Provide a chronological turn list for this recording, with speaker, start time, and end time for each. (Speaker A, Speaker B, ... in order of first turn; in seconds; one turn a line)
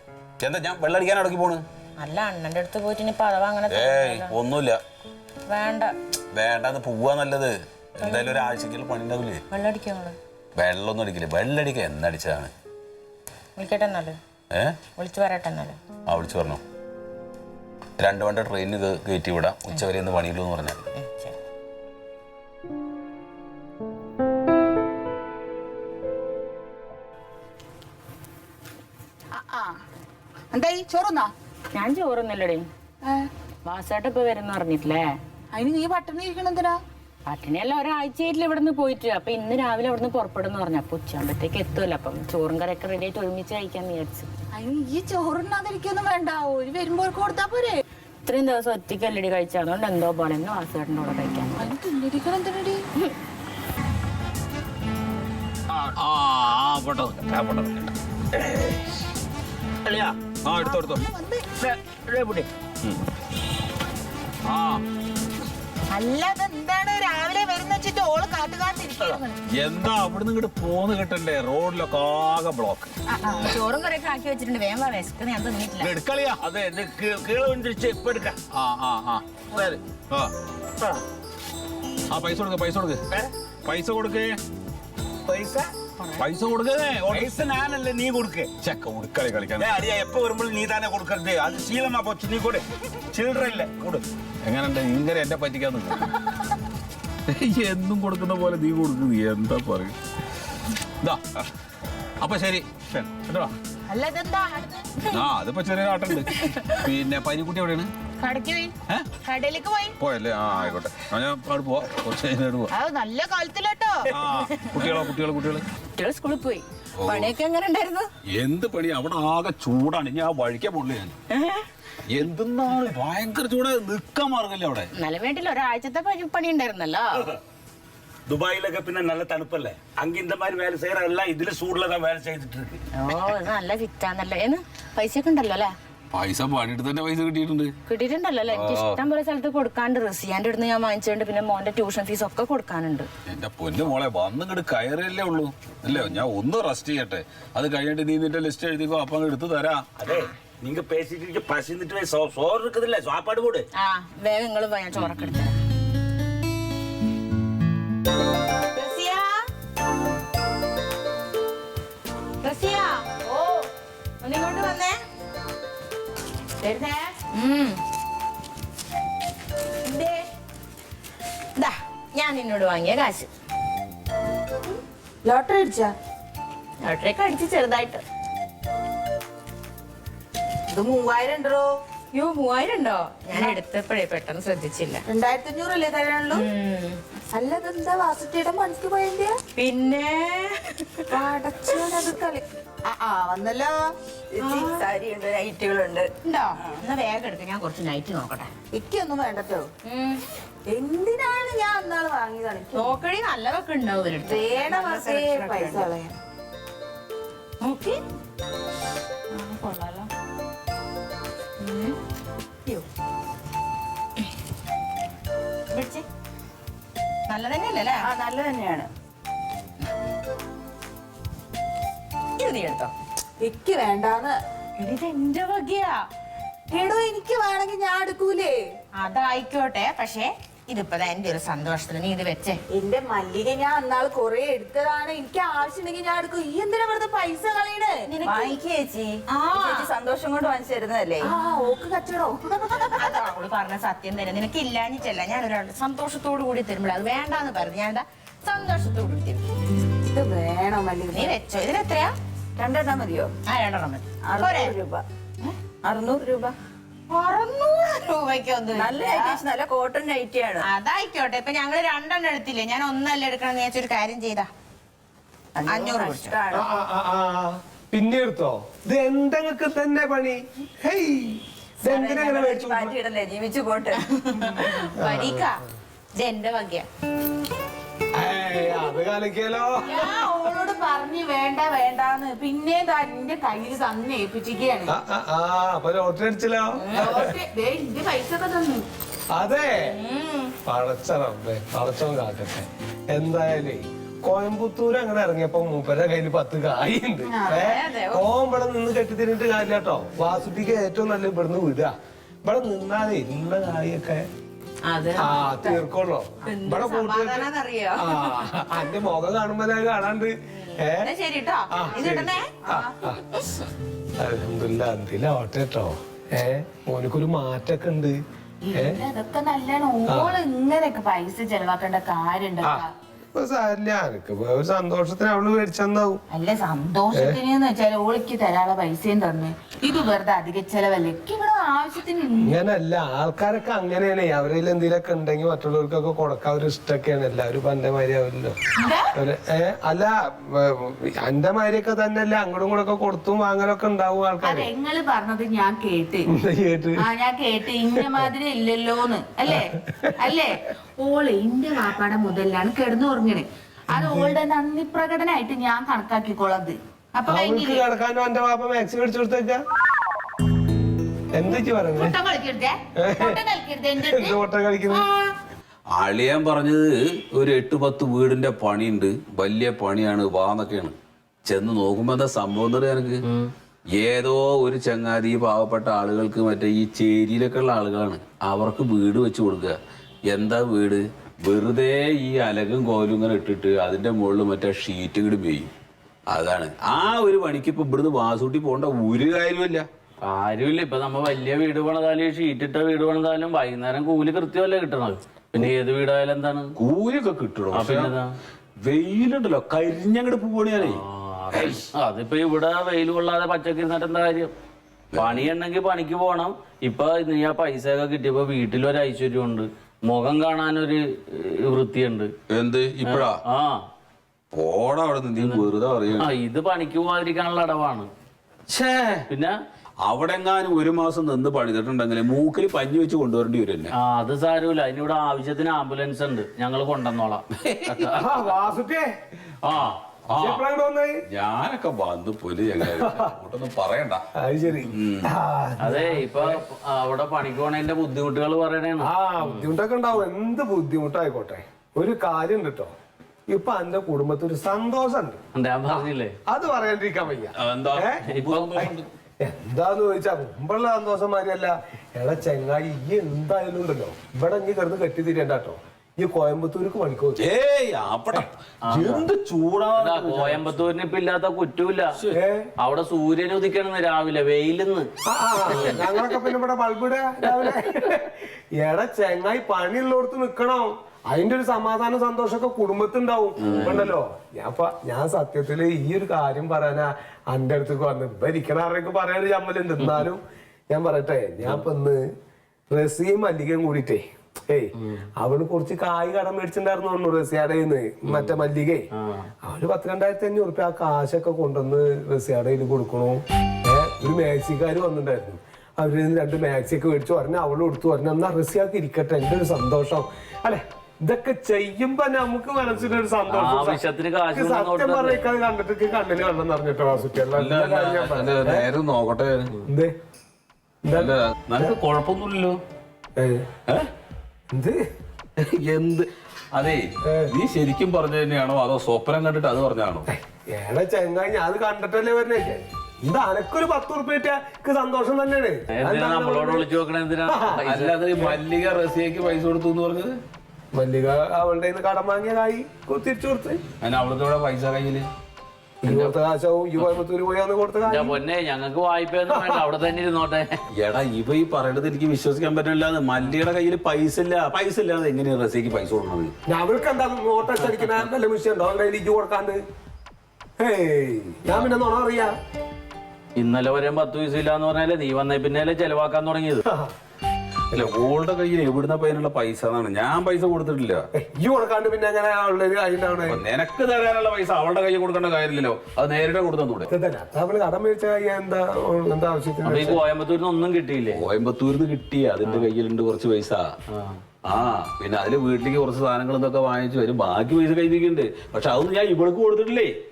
Speaker A: 0.4-1.6
Speaker B: 2.0-4.3
Speaker A: 3.7-4.8
Speaker B: 5.5-5.9
Speaker A: 6.3-9.4
Speaker B: 8.0-8.5
Speaker B: 9.5-10.2
Speaker A: 10.6-12.5
Speaker B: 13.6-14.2
Speaker A: 14.5-14.8
Speaker B: 14.9-15.8
Speaker A: 16.1-16.6
Speaker A: 18.0-20.9
Speaker B: 20.9-21.3
Speaker C: 29.3-29.8
Speaker C: 30.5-31.3
Speaker B: 31.7-32.7
Speaker C: 33.0-33.3
Speaker B: 33.6-35.1
Speaker C: 35.5-36.8
Speaker B: 37.2-44.3
Speaker C: 44.5-47.8
Speaker B: 48.2-51.8
Speaker C: 51.6-52.8
Speaker A: 55.7-58.8
Speaker D: 59.9-60.1
Speaker A: 60.4-61.0
Speaker C: 60.5-61.5
Speaker A: 61.6-62.1
Speaker D: 62.1-62.5
Speaker A: 64.5-64.8
Speaker C: 65.9-69.1
Speaker A: 69.0-72.9
Speaker C: 73.1-73.4
Speaker B: 73.3-75.9
Speaker A: 75.8-76.5
Speaker D: 76.4-78.4
Speaker A: 78.5-79.2
Speaker D: 79.5-79.8
Speaker A: 82.1-83.0
Speaker A: 83.7-84.3
Speaker D: 85.2-85.7
Speaker B: 86.0-86.3
Speaker A: 86.2-87.4
Speaker D: 87.0-88.6
Speaker A: 88.5-90.0
Speaker D: 89.6-94.0
Speaker A: 94.4-96.2
Speaker A: 97.3-100.0
Speaker A: 101.0-101.4
Speaker A: 102.2-103.5
Speaker C: 103.9-105.0
Speaker A: 105.1-107.9
Speaker B: 106.4-106.8
Speaker C: 108.2-108.7
Speaker C: 109.3-110.0
Speaker A: 110.0-112.7
Speaker C: 112.7-114.0
Speaker A: 114.1-115.7
Speaker B: 114.2-114.9
Speaker B: 116.0-118.1
Speaker A: 117.0-117.3
Speaker A: 118.3-121.1
Speaker B: 121.3-121.7
Speaker A: 122.1-124.9
Speaker B: 125.0-127.2
Speaker D: 128.2-132.8
Speaker B: 132.9-135.7
Speaker A: 136.1-137.7
Speaker B: 137.9-143.1
Speaker A: 138.5-139.0
Speaker A: 143.3-150.0
Speaker B: 145.9-146.2
Speaker D: 150.0-153.6
Speaker B: 153.8-155.5
Speaker A: 155.0-155.3
Speaker B: 158.7-159.4
Speaker B: 162.4-163.6
Speaker B: 164.2-165.0
Speaker C: 166.6-167.2
Speaker B: 167.3-167.8
Speaker B: 171.6-173.3
Speaker C: 175.2-175.9
Speaker B: 176.8-178.0
Speaker C: 180.7-181.7
Speaker B: 182.1-185.0
Speaker C: 185.1-186.4
Speaker B: 186.3-187.0
Speaker C: 187.3-189.3
Speaker B: 189.6-191.0
Speaker C: 191.1-193.9
Speaker E: 194.3-196.1
Speaker B: 194.4-194.9
Speaker C: 194.5-194.9
Speaker B: 196.2-198.5
Speaker C: 198.7-199.7
Speaker B: 199.8-200.2
Speaker C: 200.7-202.9
Speaker B: 202.7-205.9
Speaker C: 204.2-206.2
Speaker B: 207.6-208.0
Speaker C: 209.4-210.1
Speaker B: 211.6-211.9
Speaker B: 215.7-216.0
Speaker B: 217.3-218.1
Speaker C: 218.0-218.9
Speaker B: 222.4-222.9
Speaker C: 223.4-224.3
Speaker B: 224.8-226.0
Speaker C: 226.7-228.6
Speaker B: 229.0-232.6
Speaker C: 232.7-238.1
Speaker B: 238.1-239.9
Speaker E: 238.2-238.6
Speaker E: 239.5-241.2
Speaker C: 241.2-243.1
Speaker B: 242.9-249.5
Speaker C: 250.1-251.3
Speaker B: 251.1-252.2
Speaker C: 252.6-253.3
Speaker B: 253.4-254.7
Speaker C: 254.3-254.9
Speaker E: 254.3-255.0
Speaker E: 255.8-256.6
Speaker B: 257.1-259.4
Speaker E: 258.7-260.6
Speaker B: 260.6-264.5
Speaker E: 265.5-266.6
Speaker B: 265.6-266.4
Speaker F: 266.5-272.9
Speaker E: 271.8-274.0
Speaker B: 273.9-275.6
Speaker F: 274.8-275.5
Speaker B: 276.1-276.9
Speaker F: 278.1-280.4
Speaker C: 279.9-284.9
Speaker F: 284.9-287.3
Speaker B: 286.8-287.3
Speaker C: 287.0-288.8
Speaker F: 289.3-290.0
Speaker B: 289.7-290.5
Speaker F: 290.6-301.9
Speaker C: 297.3-297.6
Speaker B: 297.5-298.2
Speaker F: 302.4-304.2
Speaker B: 304.8-305.8
Speaker F: 305.1-311.1
Speaker B: 306.4-308.8
Speaker B: 310.6-312.5
Speaker F: 311.7-313.2
Speaker C: 312.7-312.9
Speaker F: 314.2-318.2
Speaker C: 318.6-322.9
Speaker F: 318.7-319.0
Speaker F: 320.1-320.4
Speaker F: 322.6-326.2
Speaker C: 326.3-332.6
Speaker F: 327.1-327.4
Speaker F: 332.4-338.6
Speaker C: 338.8-339.1
Speaker F: 339.1-344.7
Speaker C: 344.4-346.3
Speaker F: 346.3-347.0
Speaker C: 347.0-357.8
Speaker F: 347.9-348.3
Speaker F: 349.5-350.2
Speaker F: 353.9-354.4
Speaker F: 357.3-359.6
Speaker F: 361.3-362.1
Speaker C: 362.0-364.4
Speaker F: 363.0-363.4
Speaker F: 364.0-365.0
Speaker A: 365.9-373.2
Speaker G: 373.2-373.5
Speaker A: 374.0-379.8
Speaker A: 380.3-385.7
Speaker A: 386.3-389.9
Speaker G: 390.2-396.7
Speaker A: 396.8-398.1
Speaker G: 397.7-398.4
Speaker A: 398.8-401.0
Speaker G: 400.8-404.5
Speaker A: 401.5-401.8
Speaker A: 405.1-405.4
Speaker G: 405.1-412.3
Speaker A: 412.5-413.4
Speaker G: 413.0-413.8
Speaker A: 414.5-416.3
Speaker G: 415.4-418.1
Speaker A: 418.7-419.3
Speaker A: 420.0-423.9
Speaker G: 424.0-427.4
Speaker A: 427.6-428.1
Speaker F: 428.1-429.1
Speaker G: 429.6-430.0
Speaker A: 430.3-430.6
Speaker F: 430.4-431.2
Speaker A: 431.3-434.2
Speaker F: 432.8-433.3
Speaker F: 434.4-436.6
Speaker A: 434.9-435.3
Speaker G: 435.8-439.7
Speaker F: 439.0-442.9
Speaker F: 443.5-457.4
Speaker G: 445.5-446.3
Speaker A: 447.6-449.1
Speaker G: 448.3-448.7
Speaker A: 457.4-460.7
Speaker F: 458.3-459.2
Speaker G: 458.9-459.2
Speaker G: 460.0-462.2
Speaker F: 462.3-462.7
Speaker G: 462.8-466.4
Speaker F: 465.2-482.3
Speaker A: 473.6-474.1
Speaker G: 473.6-474.1
Speaker G: 480.0-480.2
Speaker F: 482.9-489.1
Speaker G: 488.3-488.5
Speaker G: 489.1-489.5
Speaker F: 489.6-504.0
Speaker G: 503.5-505.4
Speaker F: 504.5-508.9
Speaker A: 507.5-509.8
Speaker F: 509.8-510.1
Speaker F: 511.0-511.9
Speaker A: 511.1-512.8
Speaker F: 513.4-513.7
Speaker F: 514.7-515.0
Speaker A: 515.6-520.3
Speaker F: 520.3-526.9
Speaker G: 525.9-528.1
Speaker F: 527.4-528.6
Speaker A: 527.8-530.4
Speaker F: 530.9-533.8
Speaker A: 534.0-535.3
Speaker F: 536.0-538.4
Speaker G: 536.0-536.3
Speaker G: 538.0-540.8
Speaker F: 539.5-539.8
Speaker A: 540.9-546.5
Speaker F: 546.7-549.8
Speaker G: 547.8-548.2
Speaker F: 550.8-552.5
Speaker G: 553.6-556.8
Speaker F: 556.8-557.1
Speaker F: 557.9-558.2
Speaker A: 557.9-561.3
Speaker F: 561.4-563.6
Speaker A: 563.5-567.1
Speaker F: 567.1-570.2
Speaker G: 569.9-571.4
Speaker A: 571.3-573.9
Speaker G: 574.1-574.4
Speaker A: 574.6-580.1